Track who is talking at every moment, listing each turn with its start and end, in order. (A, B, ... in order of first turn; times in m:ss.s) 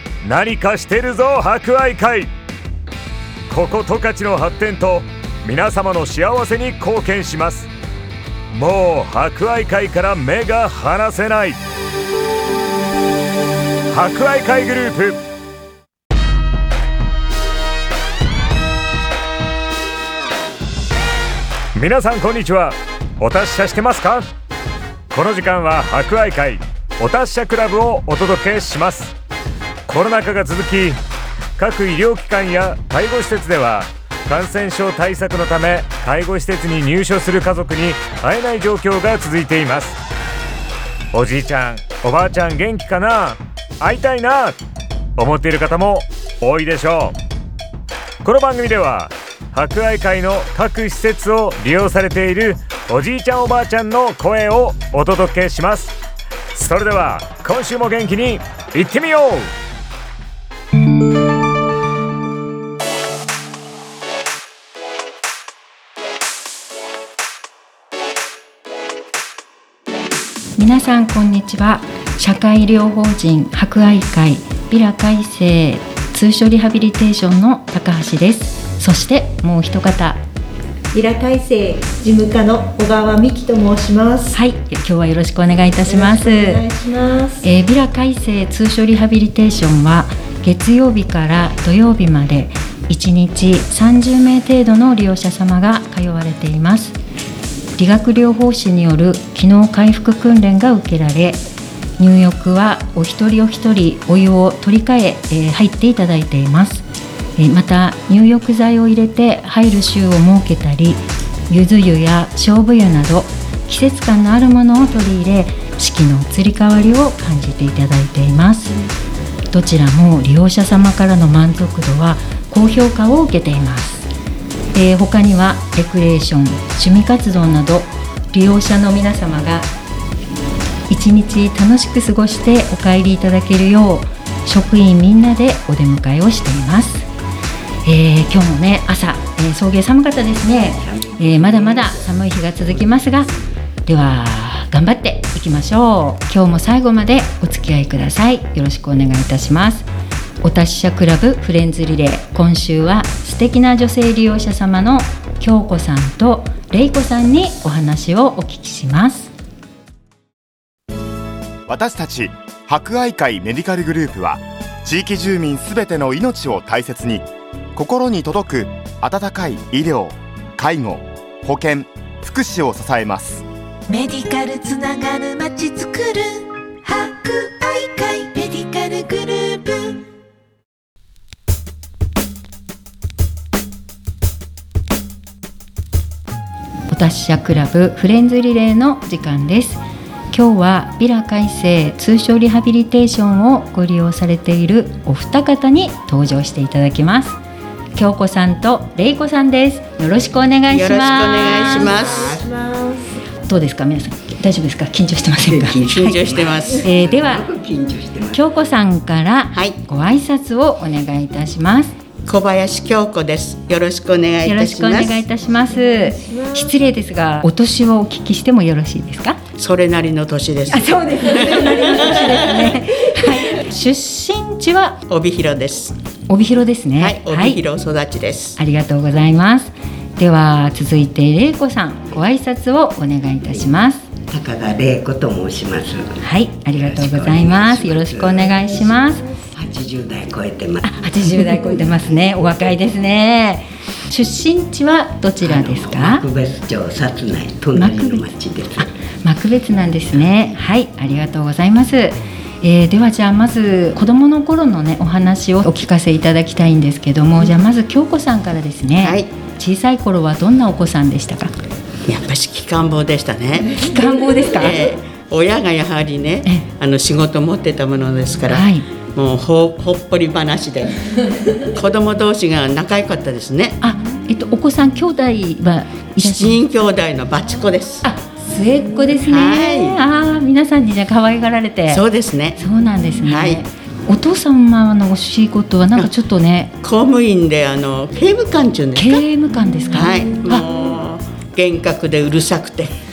0:00.2-0:02.3 A
0:03.5-0:07.7 A
0:08.5-0:11.6 A
0:13.9-0:15.2 A
0:21.8-0:24.3 A
0:25.1-0:29.1 A
0:29.9-0:31.0 A
0:31.6-0:40.0 A
0:41.1-0:44.6 A
0:45.2-0:47.2 A
0:48.2-0:55.9 A
0:56.6-0:59.5 A
1:10.6-1:20.2 B
1:20.9-1:24.4 C
1:24.3-1:26.7 B
1:25.8-1:27.4 C
1:27.4-1:37.0 B
1:37.8-1:41.4 B
1:42.0-1:46.8 B
1:47.4-1:58.7 B
1:59.5-2:04.1 B
2:04.7-2:09.7 B
2:10.9-2:17.1 B
2:17.8-2:23.3 B
2:20.7-2:23.4 D
2:23.9-2:29.9 B
2:30.4-2:39.3 B
2:41.7-2:53.4 E
2:53.9-3:00.0 F
3:06.9-3:17.4 B
3:18.0-3:22.0 B
3:20.7-3:22.5 G
3:22.0-3:22.4 D
3:22.3-3:23.0 C
3:23.5-3:26.2 B
3:25.4-3:28.4 D
3:25.8-3:26.9 G
3:26.8-3:27.5 B
3:28.3-3:31.9 B
3:32.3-3:35.2 G
3:34.4-3:39.4 B
3:39.6-3:42.7 G
3:40.7-3:45.0 B
3:45.1-3:45.9 G
3:46.3-3:47.6 B
3:47.0-3:48.6 G
3:48.6-3:54.1 B
3:54.3-3:56.2 D
3:56.2-3:59.2 B
3:56.7-3:58.7 D
3:59.6-4:02.0 D
4:00.8-4:06.2 B
4:05.4-4:08.9 D
4:07.8-4:08.2 B
4:09.2-4:21.6 B
4:10.1-4:10.6 D
4:19.0-4:19.3 G
4:22.1-4:23.9 G
4:23.8-4:24.8 B
4:24.5-4:31.0 G
4:28.5-4:28.9 B
4:31.6-4:33.8 G
4:33.8-4:36.6 B
4:36.2-4:38.1 G
4:38.0-4:42.0 B
4:39.2-4:40.0 G
4:41.9-4:42.6 G
4:42.6-4:46.7 B
4:43.3-4:43.6 G
4:46.8-4:49.3 G
4:49.0-4:50.6 B
4:49.9-4:52.9 G